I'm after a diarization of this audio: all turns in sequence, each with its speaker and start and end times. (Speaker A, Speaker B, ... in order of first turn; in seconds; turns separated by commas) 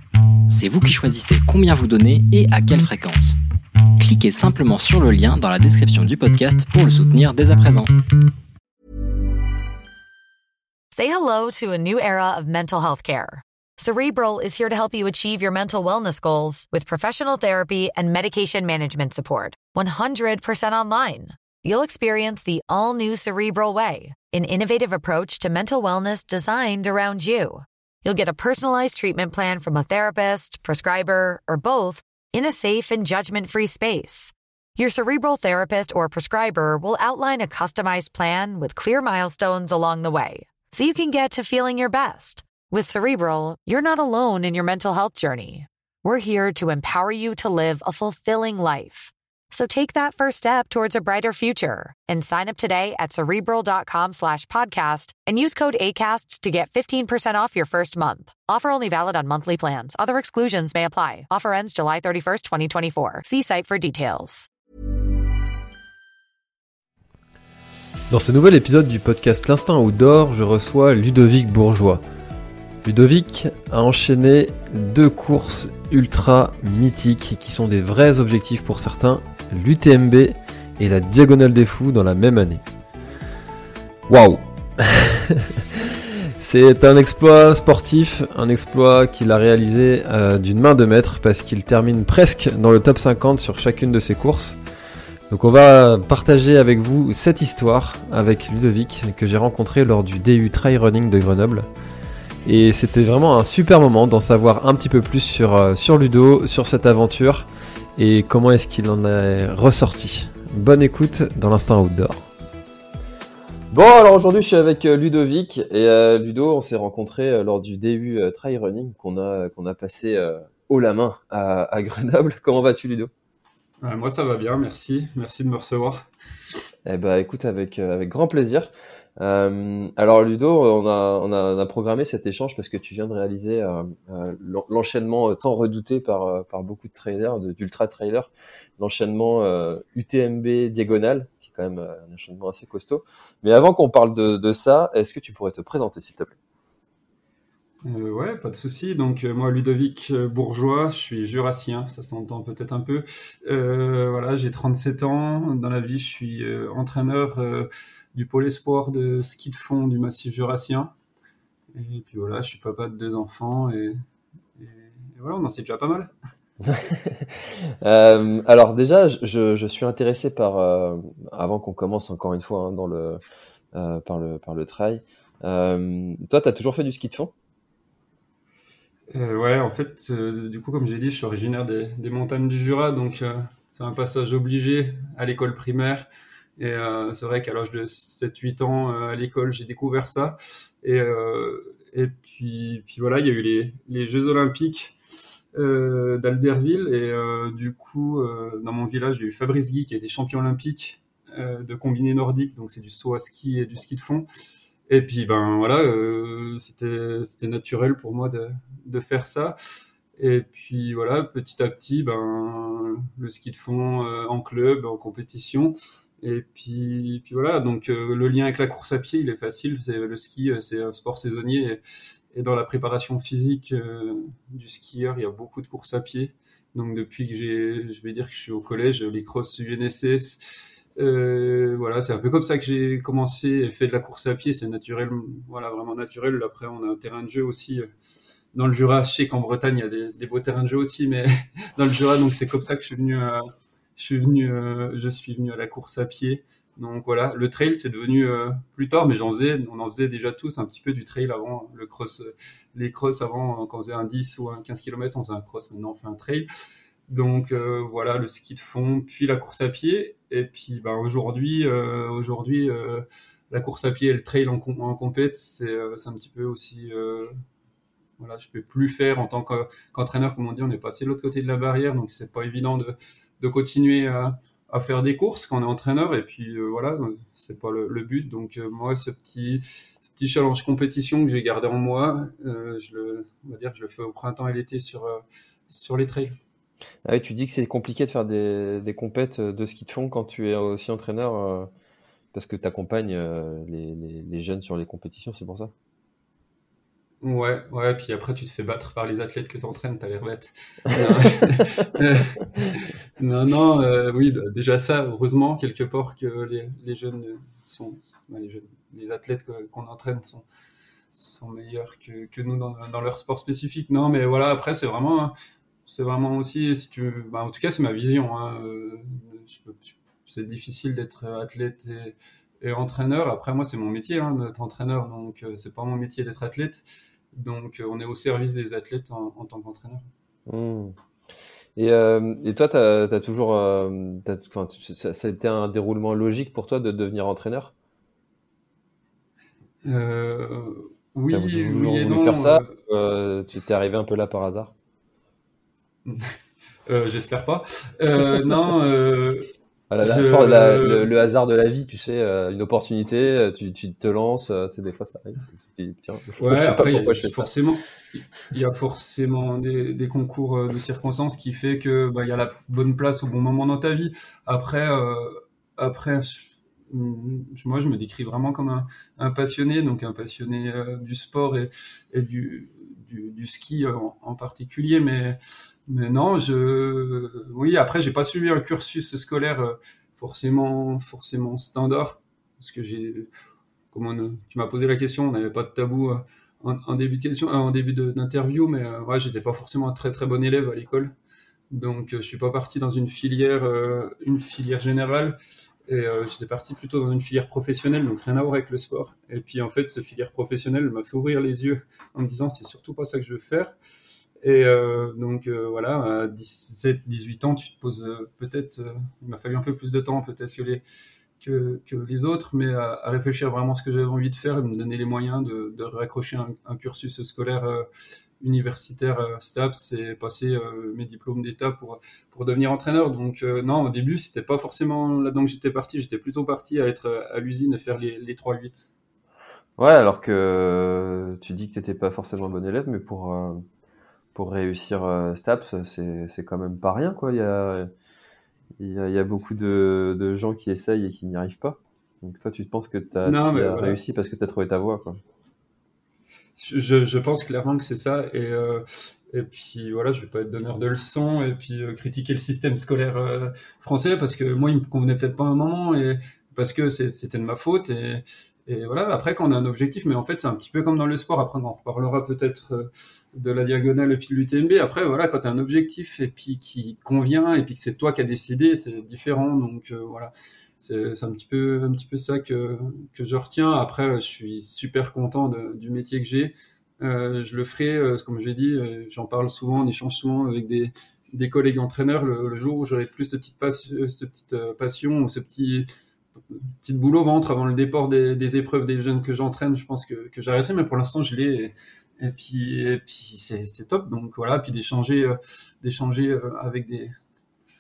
Speaker A: 0.5-3.4, Speaker A: 4.0-7.9, Speaker B: 10.9-64.5, Speaker C: 68.1-72.0, Speaker C: 72.8-82.6, Speaker C: 84.1-94.6, Speaker C: 95.3-101.7, Speaker C: 102.4-112.3, Speaker C: 113.7-123.1, Speaker D: 123.8-126.0, Speaker C: 126.8-146.3, Speaker D: 147.8-160.9, Speaker D: 161.8-163.9, Speaker D: 164.6-166.1, Speaker C: 166.6-173.2, Speaker C: 173.7-177.3, Speaker D: 179.1-186.1, Speaker D: 186.6-194.9, Speaker D: 195.5-204.2, Speaker D: 204.9-209.6, Speaker D: 210.2-221.8, Speaker D: 222.3-230.4, Speaker D: 231.0-237.9, Speaker D: 238.5-256.5, Speaker D: 257.1-267.4, Speaker D: 268.2-286.3, Speaker C: 287.1-291.7, Speaker C: 292.3-295.7, Speaker D: 297.2-310.4, Speaker C: 300.9-301.3, Speaker D: 311.1-315.3, Speaker D: 315.9-330.1, Speaker C: 330.5-330.9, Speaker C: 331.8-337.7, Speaker D: 339.8-342.7, Speaker C: 341.3-344.7, Speaker D: 346.1-346.3, Speaker D: 346.9-349.5, Speaker C: 349.9-357.5, Speaker D: 350.0-351.1, Speaker D: 356.4-375.4, Speaker D: 375.9-383.3, Speaker D: 383.9-391.1, Speaker D: 391.7-403.7, Speaker D: 404.4-410.8, Speaker D: 411.4-417.9, Speaker D: 418.4-428.9, Speaker C: 429.8-433.6, Speaker C: 434.3-437.9, Speaker C: 438.8-445.2, Speaker D: 443.2-444.0, Speaker D: 446.6-485.9, Speaker D: 486.5-497.1